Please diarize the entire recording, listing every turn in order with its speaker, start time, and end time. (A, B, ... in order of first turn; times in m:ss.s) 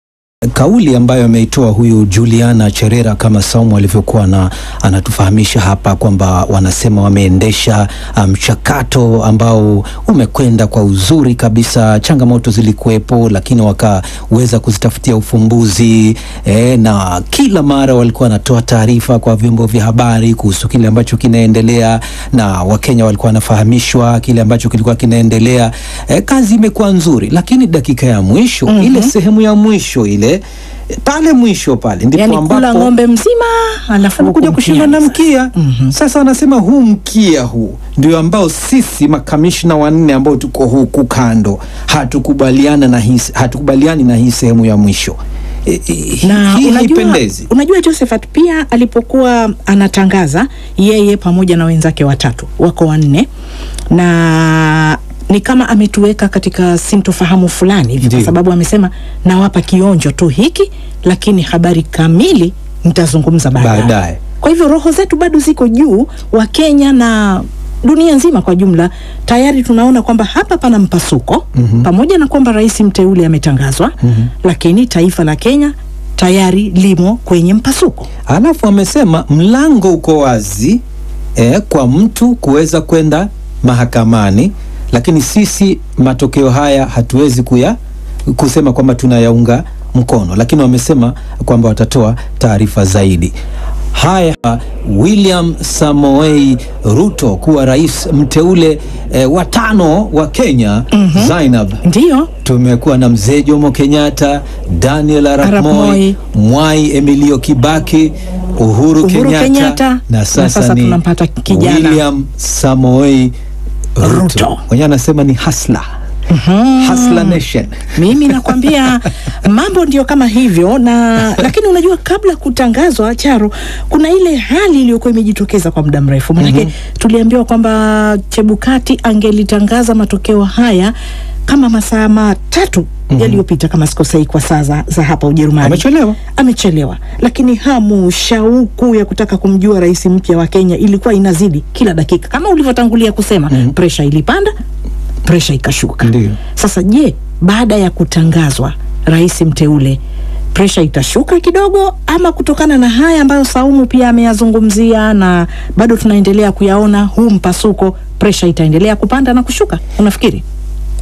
0:00.5-0:32.9 A
0:28.7-0:29.1 B
0:32.2-0:35.9 B
0:34.2-0:47.5 A
0:46.2-0:53.3 B
0:53.9-1:18.1 B
0:58.0-0:58.3 A
1:03.6-1:04.2 A
1:11.6-1:11.9 A
1:14.0-1:14.3 A
1:18.3-1:20.8 A
1:21.4-1:27.8 A
1:28.3-1:33.3 A
1:33.9-1:41.8 A
1:40.9-1:42.3 B
1:42.4-1:53.3 A
1:45.4-1:46.2 B
1:49.0-1:52.0 B
1:54.0-1:55.9 A
1:54.0-1:54.6 B
1:56.3-1:57.4 B
1:56.8-1:58.5 A
1:57.9-2:10.9 B
2:06.4-2:06.7 A
2:11.4-2:24.5 B
2:13.1-2:13.4 A
2:15.6-2:16.2 A
2:25.2-2:30.0 B
2:26.0-2:26.4 A
2:30.5-2:40.4 B